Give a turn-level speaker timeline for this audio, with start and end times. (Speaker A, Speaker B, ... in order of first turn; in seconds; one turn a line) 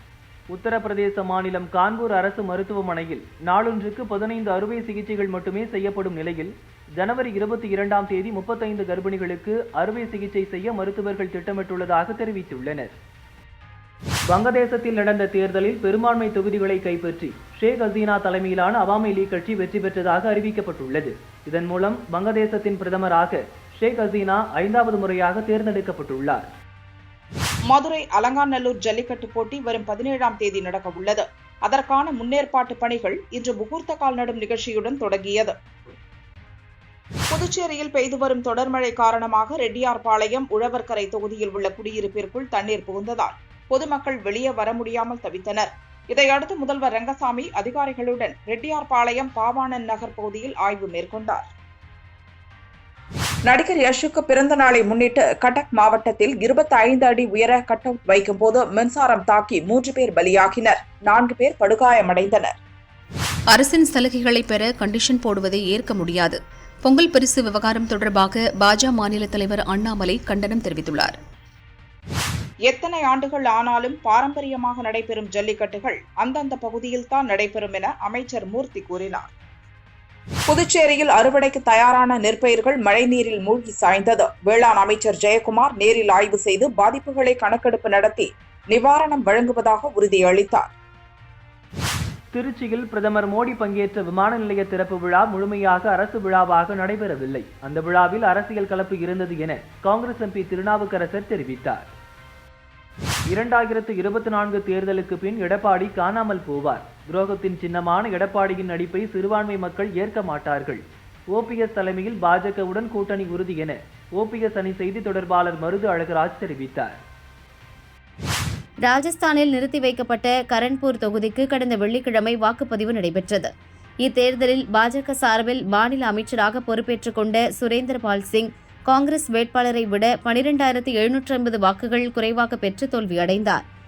Speaker A: 0.5-12.9
Speaker A: 14.3-26.5
Speaker B: 27.7-35.5
Speaker B: 37.3-51.5
Speaker B: 53.5-62.6
Speaker C: 63.5-71.1
Speaker B: 72.7-79.3
Speaker B: 80.5-90.7
Speaker A: 92.3-101.9
Speaker A: 103.3-117.0
Speaker D: 118.8-123.5
Speaker D: 124.0-133.6